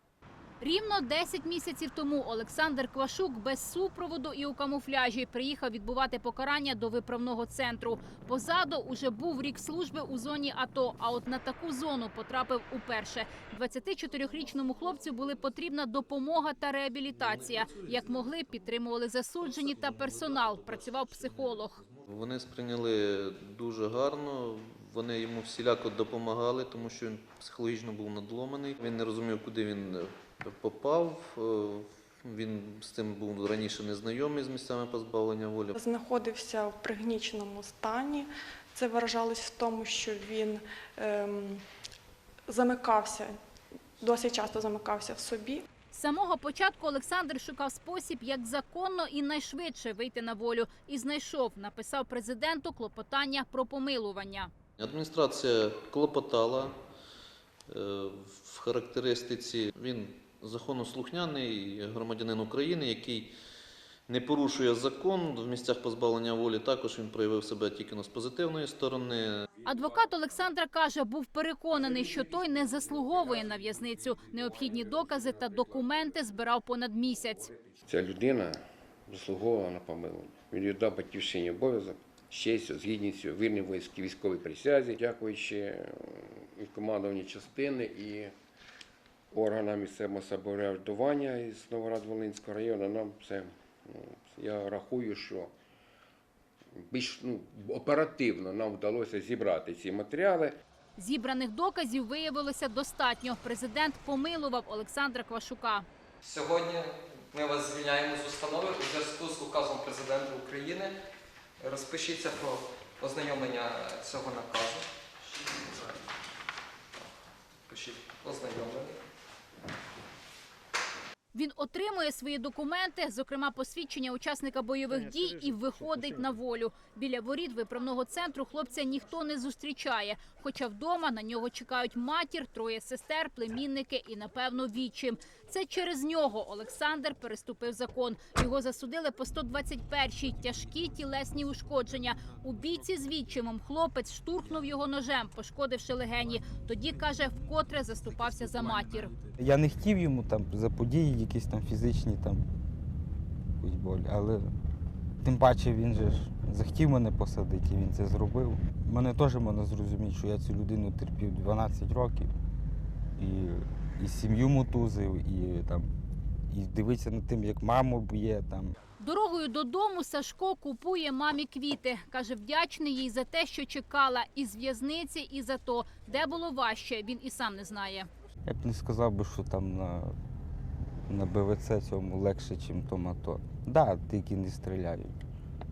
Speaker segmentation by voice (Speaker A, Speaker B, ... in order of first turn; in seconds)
Speaker A: 0.6-21.8, 45.9-54.5, 69.6-77.5, 101.0-105.8, 121.3-149.1, 169.0-178.1
Speaker B: 17.1-18.7, 19.4-35.8, 54.8-56.7, 57.7-63.3, 64.1-69.5
Speaker C: 35.8-41.6, 42.5-43.4, 44.0-45.6
Speaker D: 77.8-88.3, 89.3-95.5, 96.9-100.6
Speaker E: 106.2-111.0, 111.6-115.9, 117.7-119.0
Speaker F: 149.4-152.4, 153.6-154.5, 155.2-162.3, 163.2-165.9, 166.5-168.8, 178.4-180.1, 181.1-185.2